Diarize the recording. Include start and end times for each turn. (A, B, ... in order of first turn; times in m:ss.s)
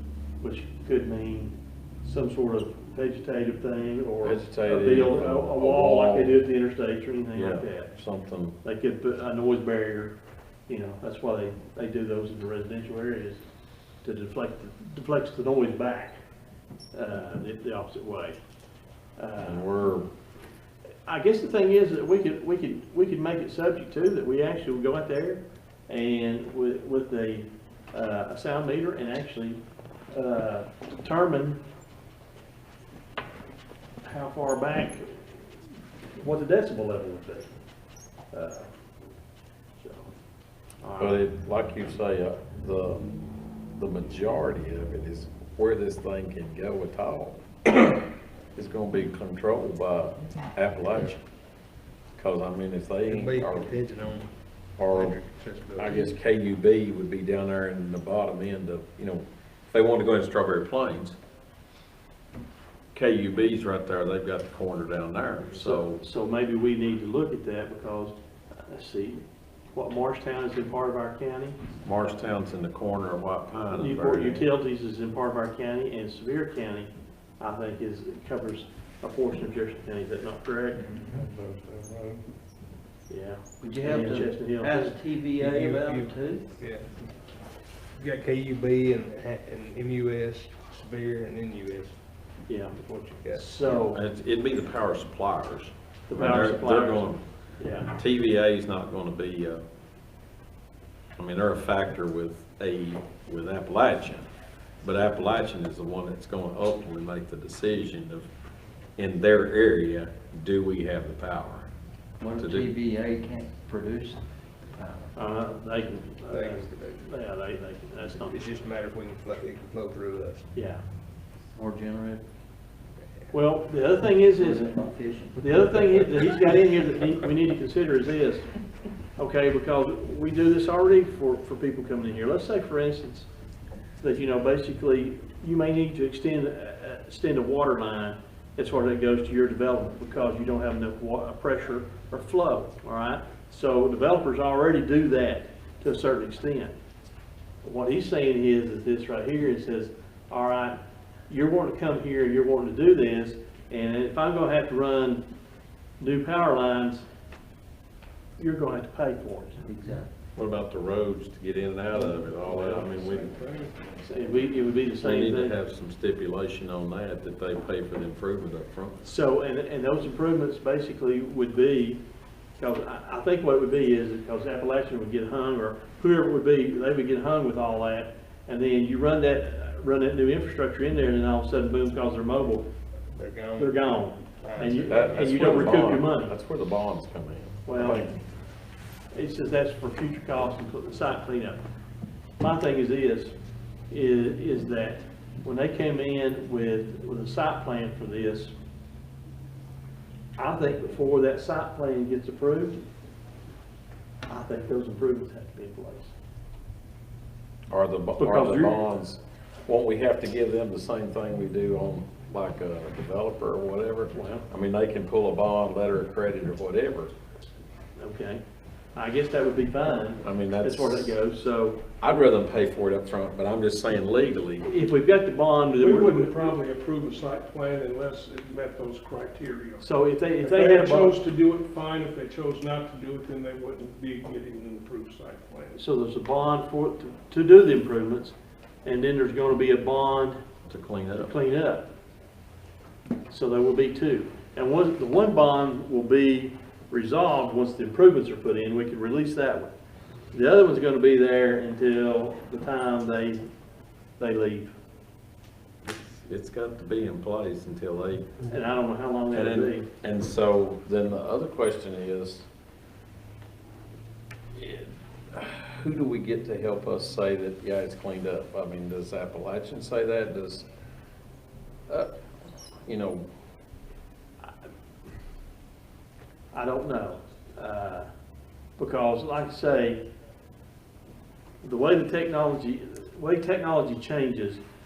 0:00.4-0:07.9 A
0:04.2-0:06.4 B
0:07.4-0:08.6 B
0:08.6-0:10.2 A
0:10.7-0:13.4 A
0:14.0-0:16.2 A
0:16.9-0:18.4 A
0:19.2-0:19.7 A
0:19.4-0:20.1 B
0:21.1-0:29.6 A
0:30.1-0:31.6 A
0:34.0-0:35.4 A
0:36.2-0:37.5 A
0:38.3-0:38.7 A
0:39.8-0:40.1 A
0:40.8-0:41.3 A
0:41.0-0:43.0 B
0:43.8-0:48.0 B
0:48.6-0:51.2 B
0:52.2-0:53.8 B
0:53.1-0:54.3 C
0:54.8-0:55.2 B
0:54.9-0:56.1 C
0:55.8-1:01.2 B
1:02.9-1:06.0 B
1:05.5-1:08.2 A
1:08.7-1:11.6 A
1:11.8-1:14.5 B
1:13.7-1:20.9 A
1:20.9-1:21.2 D
1:21.0-1:22.2 C
1:23.1-1:25.0 A
1:23.6-1:26.5 D
1:25.4-1:27.1 C
1:28.0-1:32.0 C
1:32.5-1:34.0 A
1:33.9-1:37.2 B
1:36.1-1:37.9 A
1:37.8-1:39.6 B
1:41.2-1:44.3 B
1:44.8-1:48.3 B
1:49.0-1:51.7 B
1:52.2-1:54.2 D
1:52.3-1:52.8 B
1:54.8-1:55.1 D
1:55.2-1:58.6 A
1:56.3-1:57.1 C
1:58.2-2:00.5 C
2:00.5-2:00.8 A
2:01.6-2:02.3 D
2:03.3-2:04.8 A
2:04.4-2:06.0 D
2:05.4-2:08.6 A
2:09.2-2:13.3 A
2:14.0-2:26.8 A
2:27.6-2:35.2 A
2:36.0-2:37.1 A
2:38.4-2:39.6 A
2:39.7-2:40.1 D
2:40.4-2:43.4 B
2:42.1-2:44.0 E
2:44.0-2:45.6 A
2:45.0-2:49.0 B
2:49.0-2:52.0 A
2:52.6-3:02.7 A
3:03.1-3:05.5 C
3:03.6-3:06.3 A
3:04.9-3:08.2 B
3:07.6-3:08.1 A
3:09.1-3:11.6 A
3:12.4-3:13.4 A
3:13.9-3:18.5 A
3:20.4-3:22.8 A
3:24.3-3:26.1 A
3:27.7-3:37.1 B
3:28.2-3:28.8 A
3:34.2-3:34.4 A
3:38.0-3:38.4 A
3:39.0-3:41.8 A
3:40.2-3:41.2 B
3:42.0-3:44.7 B
3:44.6-3:46.6 A
3:45.7-3:49.9 E
3:49.8-3:51.2 A
3:50.4-3:55.8 E
3:55.8-4:00.4 A
4:00.7-4:01.3 B
4:01.2-4:01.9 A
4:03.3-4:09.7 A
4:10.3-4:13.4 A
4:14.2-4:14.7 A
4:15.9-4:18.3 B
4:18.5-4:19.9 A
4:19.3-4:22.5 B
4:24.5-4:30.6 B
4:32.9-4:33.3 B
4:36.5-4:38.1 A
4:38.8-4:40.0 A
4:41.6-4:44.6 A